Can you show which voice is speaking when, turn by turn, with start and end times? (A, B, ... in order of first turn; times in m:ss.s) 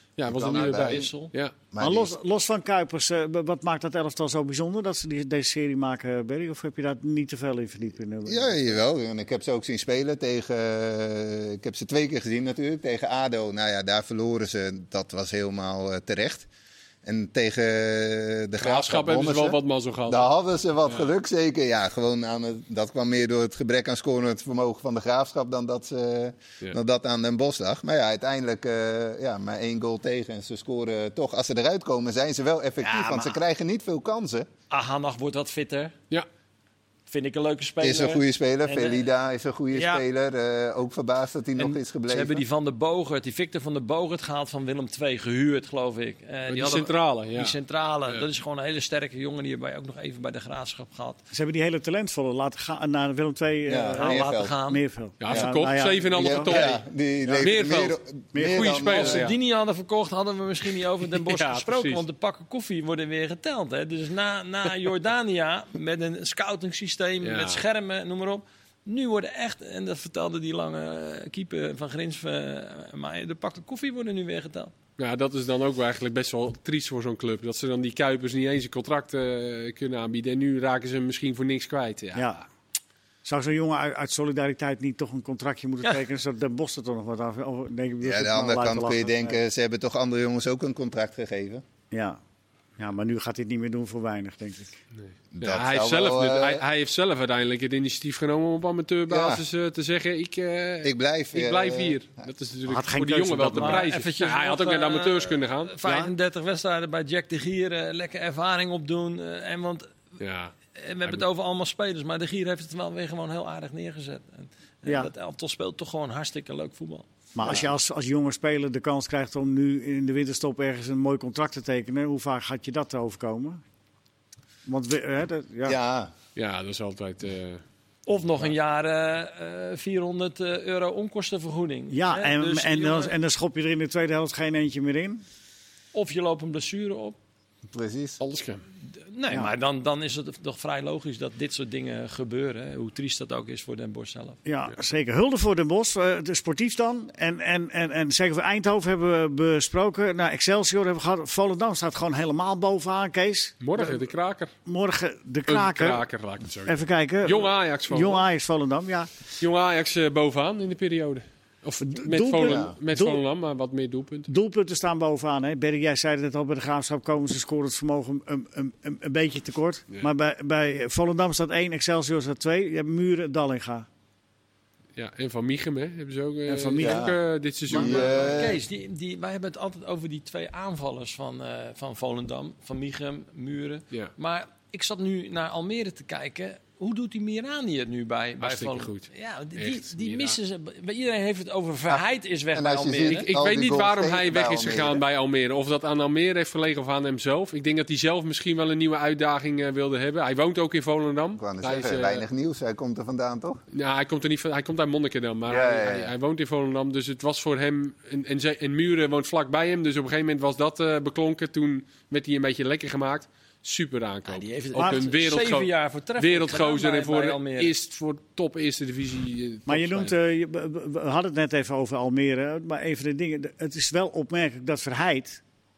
0:00.2-0:01.5 A
0:00.2-0:01.0 B
0:00.5-0:01.3 C
0:01.7-0:02.2 B
0:01.8-0:08.8 D
0:08.2-0:16.5 B
0:17.0-0:34.5 B
0:18.6-0:20.2 A
0:32.8-0:33.4 C
0:34.7-0:35.9 C
0:37.1-0:39.1 C
0:37.8-0:42.4 B
0:39.7-0:40.0 C
0:41.6-0:51.2 C
0:46.5-0:47.5 A
0:51.3-0:56.6 D
0:53.7-0:54.5 B
0:54.0-0:54.8 C
0:55.2-0:56.8 A
0:55.3-0:55.5 B
0:56.1-0:59.3 B
0:57.4-0:59.4 A
0:58.3-0:58.8 D
0:58.8-1:14.7 C
1:01.1-1:02.0 A
1:07.2-1:07.6 A
1:15.0-1:22.3 A
1:22.1-1:22.4 D
1:23.2-1:29.4 D
1:28.0-1:31.6 B
1:31.9-1:32.2 D
1:32.8-1:34.8 D
1:35.3-1:36.6 B
1:35.4-1:45.8 A
1:39.1-1:39.4 B
1:40.8-1:42.2 B
1:42.7-1:43.9 D
1:43.6-1:50.0 C
1:45.8-1:46.1 D
1:50.2-1:50.5 A
1:50.8-1:57.0 C
1:57.3-2:03.6 D
2:04.6-2:05.8 D
2:05.6-2:06.1 B
2:06.4-2:07.6 A
2:08.0-2:13.1 C
2:11.9-2:15.2 D
2:15.9-2:17.2 C
2:17.7-2:18.2 B
2:18.2-2:18.6 A
2:19.0-2:24.4 C
2:24.4-2:34.0 D
2:33.6-2:34.5 A
2:34.6-2:36.0 D
2:35.5-2:38.2 A
2:36.6-2:39.1 D
2:39.4-2:44.3 A
2:41.8-2:43.2 D
2:42.4-2:42.7 B
2:44.3-2:53.9 D
2:55.0-2:58.4 A
2:56.5-2:57.1 D
2:56.8-2:58.6 B
2:57.7-3:13.3 C
3:08.4-3:10.4 A
3:12.5-3:15.0 B
3:13.0-3:22.2 A
3:21.4-3:23.6 B
3:23.7-3:40.1 A
3:25.5-3:26.1 B
3:34.3-3:37.7 C
3:34.8-3:35.0 D
3:39.7-3:45.4 D